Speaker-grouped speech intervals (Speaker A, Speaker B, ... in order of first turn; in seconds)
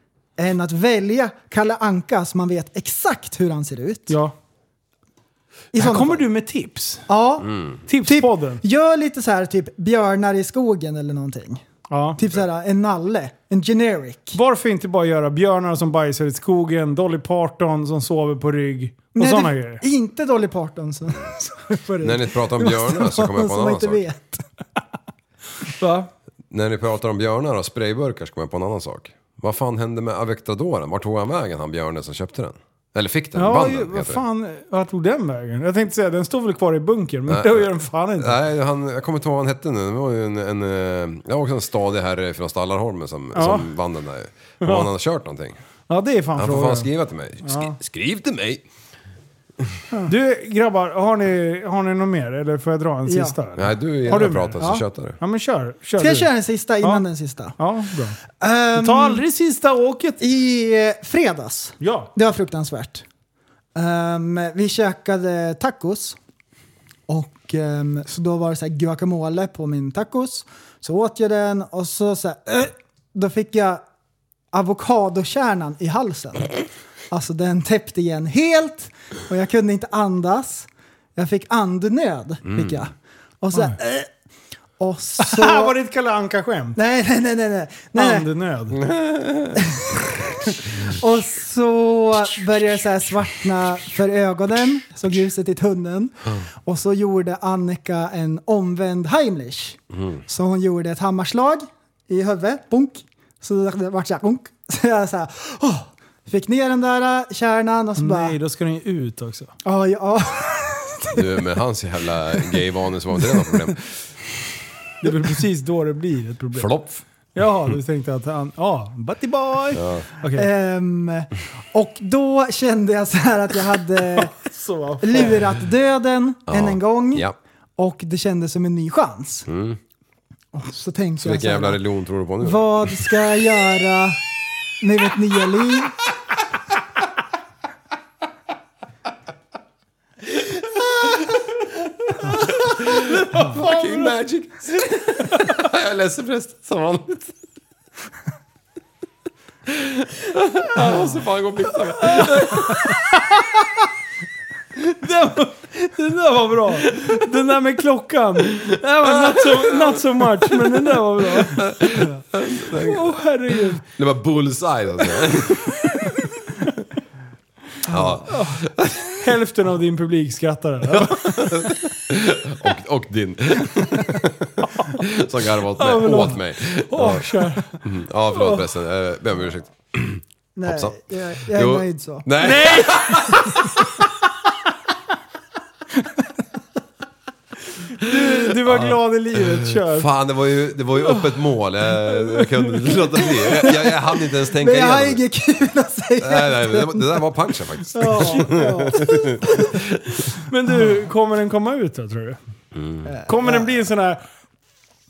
Speaker A: 0.4-4.2, 5.7-6.2, 7.1-7.5, 8.0-11.6, 12.2-14.4, 19.1-24.4, 53.1-53.4, 56.0-57.6, 58.4-59.2, 60.2-63.0, 63.7-66.2, 67.1-73.8, 74.5-76.5, 77.1-84.1, 84.8-85.7, 86.8-88.3, 89.5-89.9, 90.8-108.4, 109.6-111.2, 120.3-124.3, 125.0-129.5, 130.5-131.8, 132.4-134.2, 134.8-135.9, 180.6-182.3, 194.5-197.1, 197.9-199.7, 203.1-203.6
Speaker B: 4.1-4.3, 5.8-7.0, 7.9-8.6, 11.9-12.2, 14.3-19.8, 25.8-26.1, 33.3-38.4, 43.3-43.7, 44.6-44.9, 45.9-46.9, 47.4-47.7, 50.0-54.6, 55.2-56.3, 57.6-58.2, 58.7-60.2, 61.8-62.1, 85.2-86.8, 87.9-88.8, 108.0-109.5, 115.0-116.7, 117.3-120.5, 124.2-125.5, 142.9-144.1, 150.8-151.2, 152.0-153.6, 154.8-163.8, 165.2-166.7, 167.9-171.8, 175.8-177.8, 178.3-178.7, 182.4-183.6, 187.9-190.1, 191.0-191.3, 192.1-193.7, 197.9-198.9, 200.3-202.4, 203.3-204.2
Speaker C: 22.0-24.0, 26.5-34.2, 37.3-45.6, 46.4-48.6, 53.5-55.2, 82.5-82.8, 88.8-89.6, 111.1-114.1, 116.5-117.0, 119.7-120.0, 126.5-127.3, 129.5-129.8, 131.2-133.2, 142.2-147.3, 149.7-153.0, 156.9-157.2, 158.6-165.9, 167.8-169.1, 170.9-183.8, 188.0-195.2, 196.2-199.7, 202.7-203.1